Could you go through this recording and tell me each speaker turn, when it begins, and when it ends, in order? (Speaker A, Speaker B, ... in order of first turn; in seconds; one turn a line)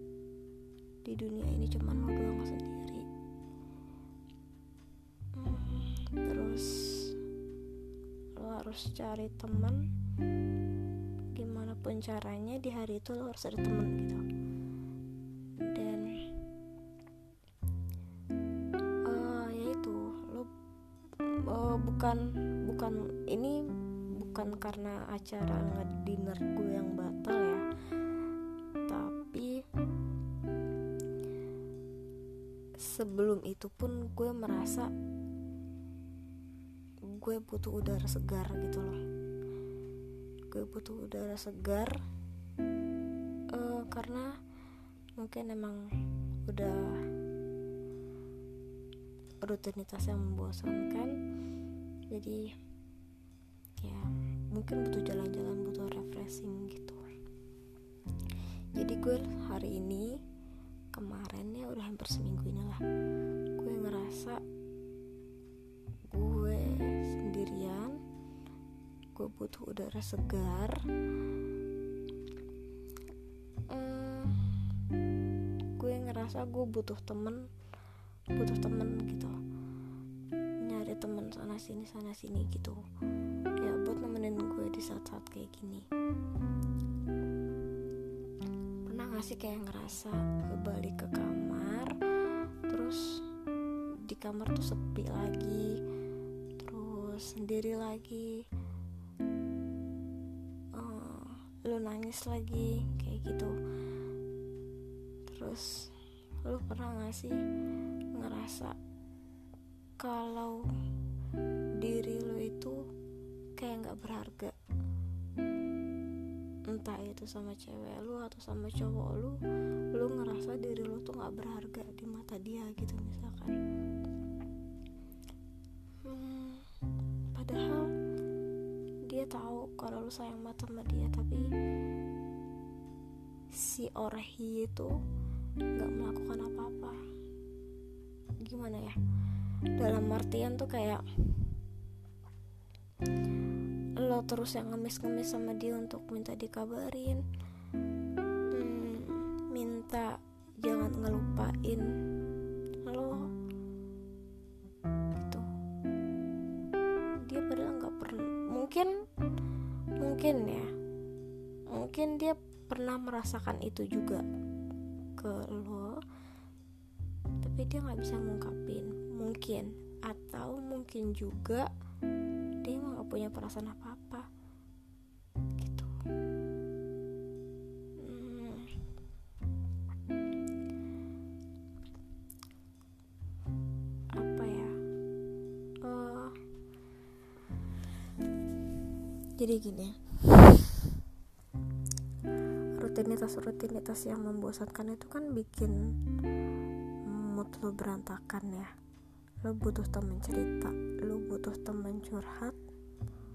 Speaker A: 1.0-3.0
Speaker A: 5.3-7.1
Speaker A: 8.3-9.8
Speaker A: 11.3-14.2
Speaker A: 15.6-16.1
Speaker A: 19.1-20.5
Speaker A: 21.3-23.6
Speaker A: 24.2-27.6
Speaker A: 28.9-29.5
Speaker A: 32.8-34.9
Speaker A: 37.1-39.0
Speaker A: 40.5-42.0
Speaker A: 43.5-44.3
Speaker A: 45.2-45.8
Speaker A: 46.5-47.0
Speaker A: 49.4-51.1
Speaker A: 52.1-52.4
Speaker A: 53.8-57.0
Speaker A: 58.7-60.1
Speaker A: 60.9-62.8
Speaker A: 63.5-64.4
Speaker A: 66.1-68.0
Speaker A: 69.1-70.8
Speaker A: 73.7-74.5
Speaker A: 75.8-77.4
Speaker A: 78.3-79.3
Speaker A: 80.6-82.8
Speaker A: 83.6-85.9
Speaker A: 88.8-91.9
Speaker A: 92.7-93.2
Speaker A: 94.0-95.8
Speaker A: 96.6-98.3
Speaker A: 100.8-103.5
Speaker A: 105.3-105.9
Speaker A: 106.4-107.4
Speaker A: 108.1-108.8
Speaker A: 110.0-110.6
Speaker A: 111.8-112.8
Speaker A: 113.6-114.5
Speaker A: 116.7-119.4
Speaker A: 119.9-123.6
Speaker A: 126.0-126.7
Speaker A: 127.3-127.9
Speaker A: 129.1-131.4
Speaker A: 133.5-134.9
Speaker A: 135.7-136.9
Speaker A: 138.4-139.0
Speaker A: 139.8-141.5
Speaker A: 144.0-147.2
Speaker A: 148.5-151.9
Speaker A: 152.8-153.2
Speaker A: 155.1-155.5
Speaker A: 157.2-158.9
Speaker A: 160.0-160.7
Speaker A: 161.7-164.2
Speaker A: 165.2-166.0
Speaker A: 167.4-171.7
Speaker A: 172.6-174.2
Speaker A: 175.6-175.9
Speaker A: 178.0-178.7
Speaker A: 184.2-184.8
Speaker A: 185.8-186.4
Speaker A: 189.4-190.9
Speaker A: 192.8-195.8
Speaker A: 197.1-198.7
Speaker A: 199.4-202.6